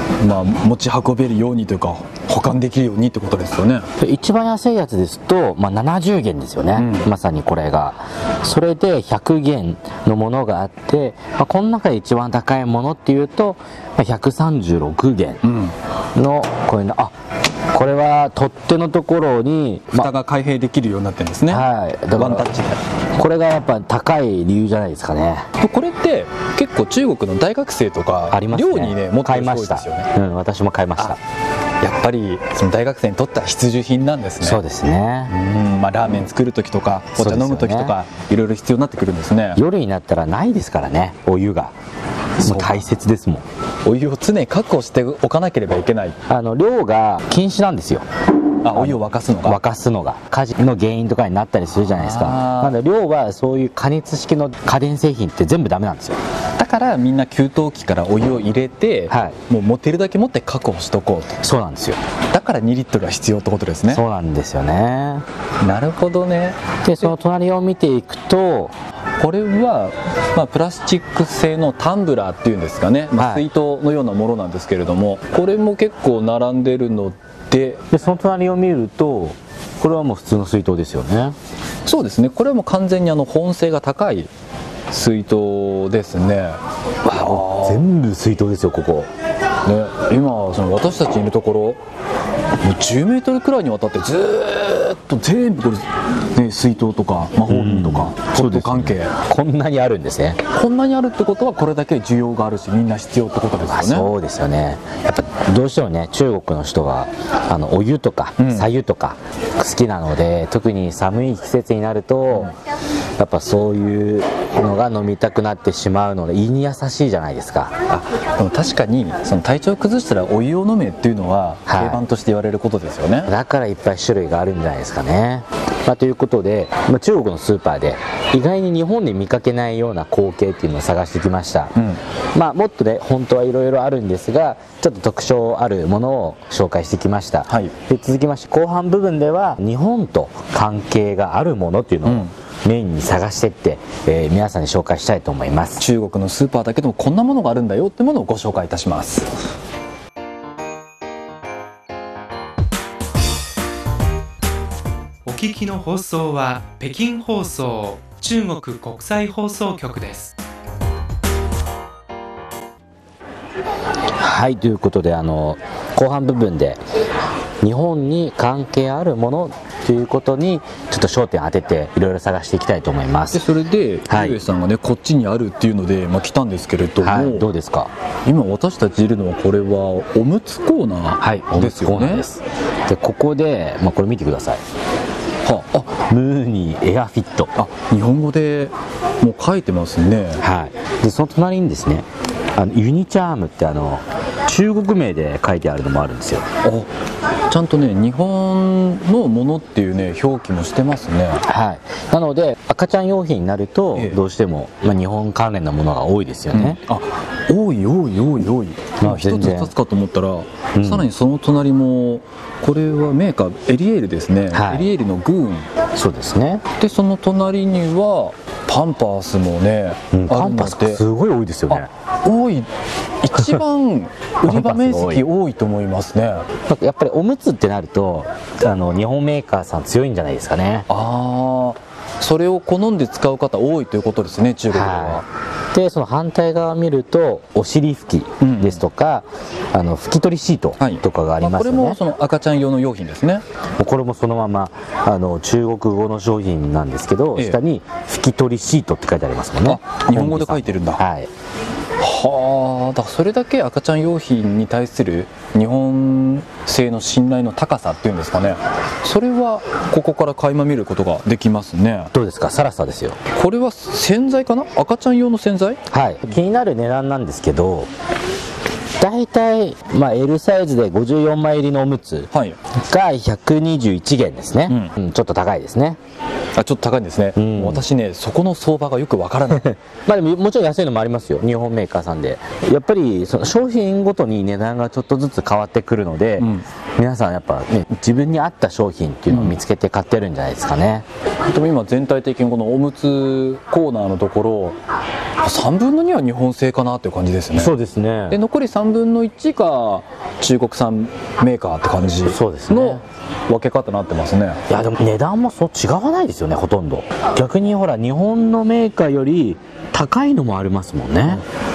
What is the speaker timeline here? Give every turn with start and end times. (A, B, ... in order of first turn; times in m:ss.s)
0:00.2-0:03.8 A
0:04.0-0:15.4 B
0:06.7-0:07.1 A
0:15.4-0:15.7 A
0:16.1-0:17.1 B
0:17.7-0:20.1 B
0:19.9-0:22.8 A
0:21.5-0:22.5 B
0:23.2-0:25.4 B
0:25.6-0:30.1 A
0:28.3-0:31.2 B
0:31.8-0:34.6 A
0:34.4-0:35.3 B
0:35.3-0:39.6 A
0:37.2-0:38.0 B
0:39.6-0:41.7 B
0:42.4-0:42.8 A
0:42.4-0:43.4 B
0:43.8-0:46.2 A
0:46.3-0:48.0 B
0:48.6-0:49.6 A
0:48.7-0:56.2 B
0:51.7-0:52.8 A
0:56.6-1:01.4 A
0:59.1-0:59.4 B
1:01.4-1:02.0 B
1:02.3-1:04.0 A
1:03.9-1:05.2 B
1:05.6-1:07.1 A
1:06.8-1:08.7 B
1:09.2-1:17.8 A
1:13.2-1:13.4 B
1:17.9-1:21.4 B
1:21.8-1:24.3 A
1:24.9-1:27.9 A
1:27.1-1:29.1 B
1:29.6-1:31.8 A
1:32.6-1:39.1 A
1:37.5-1:40.4 B
1:40.5-1:44.1 A
1:43.6-1:52.5 B
1:48.4-1:48.7 A
1:53.2-1:57.7 B
1:57.9-2:03.3 A
2:01.6-2:02.0 B
2:03.2-2:11.7 B
2:12.3-2:25.8 B
2:17.5-2:17.7 A
2:22.0-2:22.3 A
2:25.8-2:29.3 A
2:35.2-2:40.3 C
2:44.2-2:46.8 B
2:47.6-2:53.4 B
2:53.3-2:57.5 A
2:54.1-2:54.4 B
2:57.0-2:57.9 B
2:58.2-3:02.3 A
3:01.2-3:04.6 B
3:05.4-3:05.9 A
3:05.9-3:07.5 B
3:07.5-3:10.4 A
3:10.4-3:16.4 B
3:16.6-3:16.9 A
3:17.5-3:21.4 A
3:21.4-3:26.8 B
3:23.9-3:24.2 A
3:26.5-3:35.7 A
3:29.0-3:29.7 B
3:30.7-3:31.1 B
3:34.5-3:34.9 B
3:35.9-3:36.6 B
3:36.8-3:41.0 A
3:40.1-3:41.9 B
3:41.7-3:42.7 A
3:43.2-3:46.4 A
3:44.4-3:45.2 B
3:46.7-3:50.9 B
3:50.9-3:55.2 A
3:54.7-4:02.0 B
3:58.4-3:58.8 A
4:00.8-4:03.4 A
4:03.8-4:11.3 B
4:07.3-4:07.6 A
4:09.6-4:11.0 A
4:12.0-4:22.1 A
4:22.1-4:23.2 B
4:23.3-4:25.8 A
4:25.9-4:27.9 B
4:29.0-4:32.3 B
4:32.3-4:32.6 A
4:32.9-4:36.0 B
4:36.6-4:39.7 A
4:37.4-4:37.8 B
4:39.5-4:51.0 B
4:46.4-4:46.6 A
4:49.3-4:49.6 A
4:51.5-4:54.8 A
4:55.4-4:57.7 A
4:57.5-4:58.4 B
4:58.3-5:04.6 A
5:02.2-5:03.0 B
5:04.7-5:11.4 B